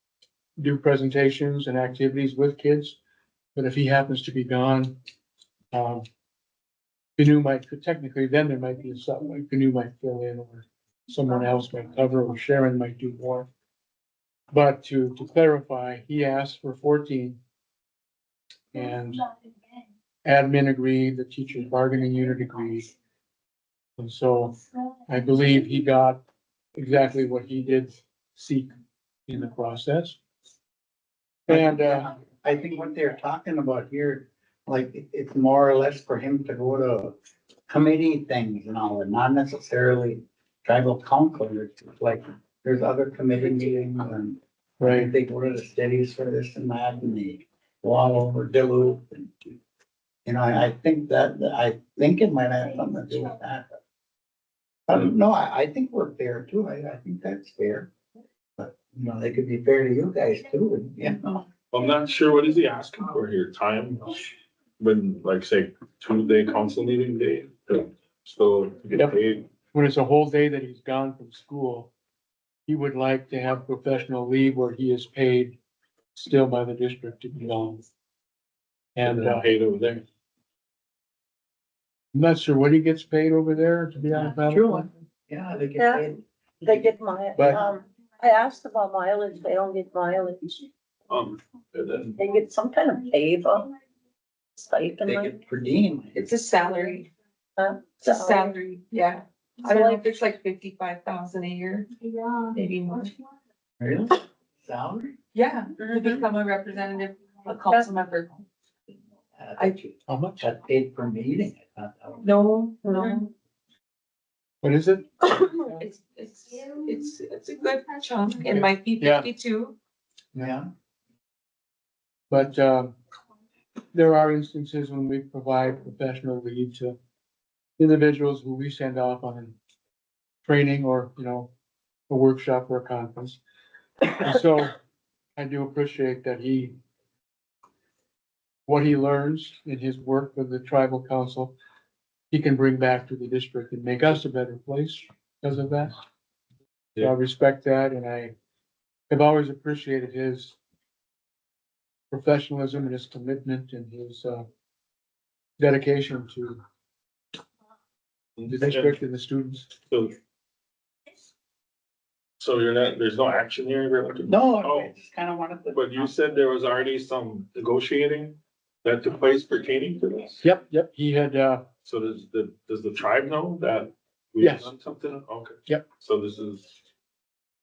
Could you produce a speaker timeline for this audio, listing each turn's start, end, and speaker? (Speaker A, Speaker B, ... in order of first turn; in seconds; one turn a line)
Speaker A: 0.6-3.0
Speaker A: 3.5-4.9
Speaker A: 5.7-6.0
Speaker A: 7.2-13.5
Speaker A: 14.5-17.4
Speaker A: 18.7-19.2
Speaker A: 20.2-22.9
Speaker A: 24.0-24.6
Speaker A: 25.1-26.2
Speaker A: 26.7-28.7
Speaker A: 29.3-30.2
Speaker A: 31.5-32.1
Speaker B: 31.5-37.1
Speaker B: 37.7-49.3
Speaker A: 44.8-45.1
Speaker B: 50.2-53.7
Speaker B: 54.9-57.9
Speaker B: 58.6-61.5
Speaker C: 61.7-64.2
Speaker C: 64.8-69.5
Speaker A: 69.7-71.9
Speaker A: 72.7-75.6
Speaker A: 76.1-77.8
Speaker A: 78.9-79.5
Speaker C: 79.0-80.0
Speaker A: 82.1-84.9
Speaker B: 84.3-86.9
Speaker D: 85.8-86.1
Speaker D: 86.6-90.6
Speaker A: 87.3-87.6
Speaker C: 91.1-92.2
Speaker D: 92.2-93.7
Speaker D: 94.6-95.3
Speaker B: 95.0-96.2
Speaker E: 96.1-97.1
Speaker D: 97.6-98.5
Speaker E: 98.0-103.1
Speaker D: 99.6-100.2
Speaker B: 103.8-105.2
Speaker E: 105.3-108.3
Speaker D: 105.8-106.2
Speaker B: 109.4-112.3
Speaker A: 110.1-110.4
Speaker E: 112.2-113.3
Speaker D: 112.8-113.2
Speaker A: 114.6-115.1
Speaker E: 115.3-119.8
Speaker A: 118.5-119.3
Speaker B: 120.4-120.7
Speaker A: 122.3-123.0
Speaker A: 123.9-127.0
Speaker A: 127.8-129.6
Speaker A: 130.4-131.5
Speaker A: 132.1-133.4
Speaker A: 134.2-134.8
Speaker A: 135.3-136.7
Speaker A: 138.7-141.5
Speaker A: 142.3-145.9
Speaker A: 147.0-148.3
Speaker A: 149.1-150.6
Speaker A: 152.1-154.5
Speaker A: 155.6-156.6
Speaker C: 158.4-159.0
Speaker A: 158.5-159.7
Speaker C: 159.9-160.2
Speaker C: 162.4-164.9
Speaker B: 164.3-166.1
Speaker C: 165.7-170.4
Speaker A: 170.4-171.6
Speaker C: 171.8-176.8
Speaker A: 174.4-174.7